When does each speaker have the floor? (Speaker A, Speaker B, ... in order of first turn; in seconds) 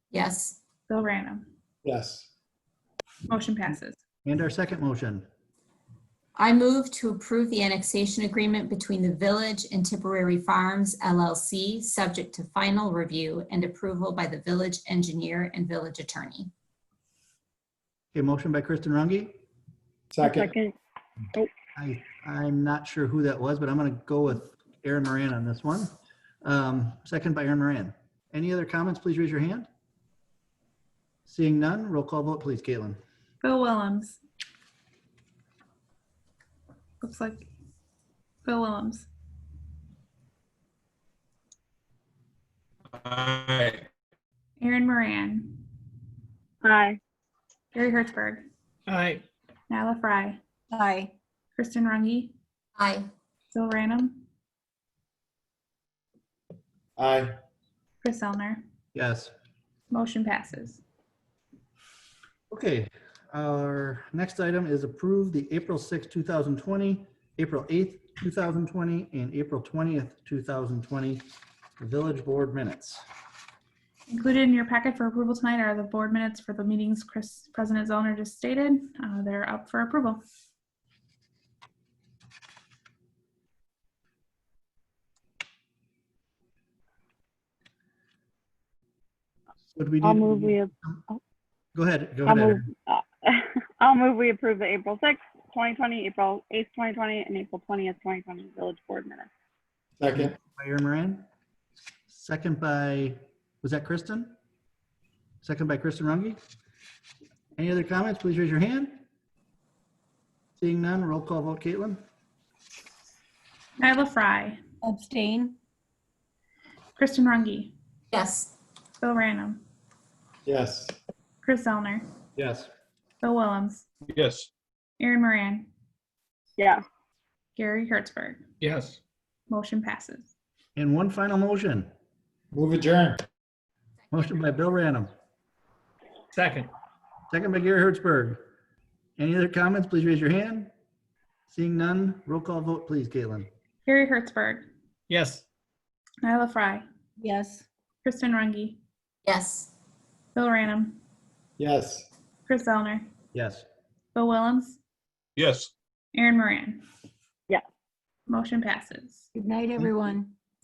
Speaker A: 0.1-0.6, 6.3-16.5, 52.8-53.1, 118.1-118.5, 149.2-149.7
Speaker B: 0.9-1.4, 3.3-4.0, 33.4-34.2, 37.0-37.5, 38.4-39.1, 44.6-45.6, 47.7-48.4, 49.7-50.4, 51.5-52.3, 53.5-54.2, 58.0-58.6, 59.9-60.8, 74.1-80.2, 113.8-114.6, 117.0-117.7, 119.0-119.6, 121.4-122.0, 123.2-123.8, 125.0-125.7, 127.5-128.4, 129.5-130.3, 143.8-144.7, 146.2-146.8, 148.0-148.8, 150.3-151.0, 152.5-153.1, 154.1-154.8, 156.1-156.8, 158.3-159.3
Speaker C: 1.8-2.3, 20.1-20.5, 57.0-57.3, 100.0-100.3, 120.5-120.9, 132.5-133.2, 151.6-152.1
Speaker D: 4.2-5.2, 18.1-19.3, 21.7-25.9, 26.4-29.7, 31.2-33.0, 58.9-59.3, 62.5-73.0, 89.7-91.0, 91.7-92.6, 100.1-101.2, 102.1-104.3, 105.4-106.4, 107.6-109.0, 110.6-112.0, 122.4-122.7, 130.8-131.9, 134.1-135.1, 137.3-138.4, 139.2-140.7, 141.5-143.5, 153.3-153.7
Speaker E: 20.2-20.7, 46.6-47.0, 90.0-91.2, 92.3-99.3
Speaker F: 43.0-43.8, 48.9-49.2, 124.1-124.5, 128.6-129.0, 136.3-136.7, 145.1-145.4, 155.4-155.7
Speaker G: 50.7-51.1, 114.8-115.5, 147.2-147.7, 159.3-160.3